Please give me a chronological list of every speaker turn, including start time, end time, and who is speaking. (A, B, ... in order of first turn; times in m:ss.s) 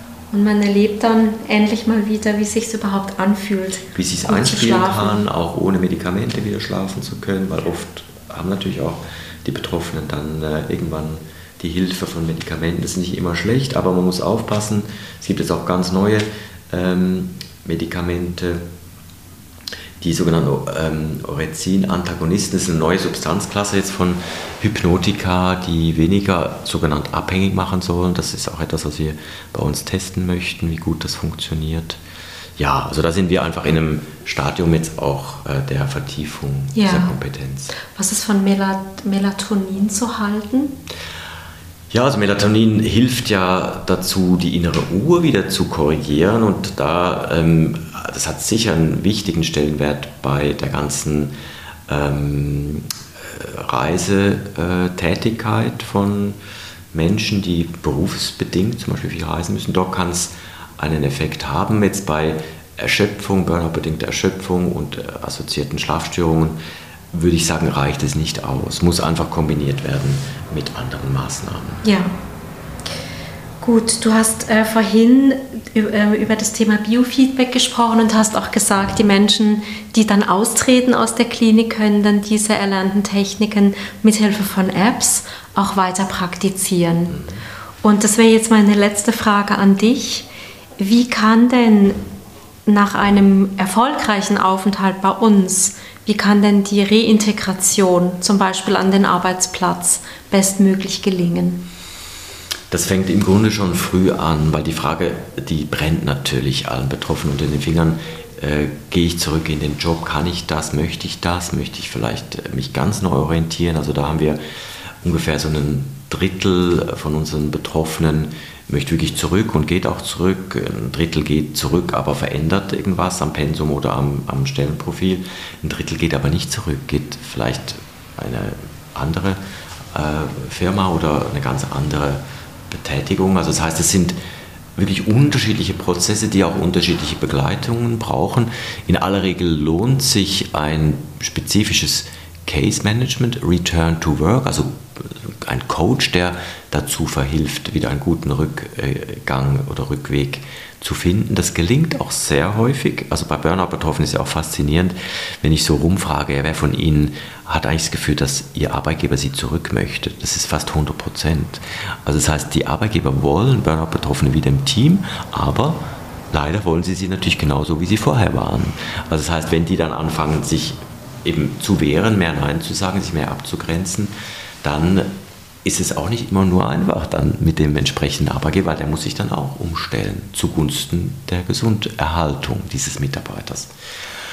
0:00.3-0:05.3 A
0:03.9-0:18.6 B
0:20.0-0:32.0 B
0:32.6-0:37.7 B
0:36.7-0:37.1 A
0:37.8-0:40.8 A
0:41.9-0:51.3 B
0:51.9-0:56.4 B
0:56.9-1:06.6 B
1:07.1-1:11.8 B
1:11.8-1:12.1 A
1:13.6-1:27.2 A
1:27.1-1:27.4 B
1:27.8-1:30.3 A
1:30.8-1:32.0 A
1:32.7-1:41.6 A
1:42.7-1:54.4 B
1:55.0-2:09.4 B
2:09.9-2:14.2 B
2:14.8-2:54.1 B
2:54.6-2:55.1 B
2:55.6-3:03.7 B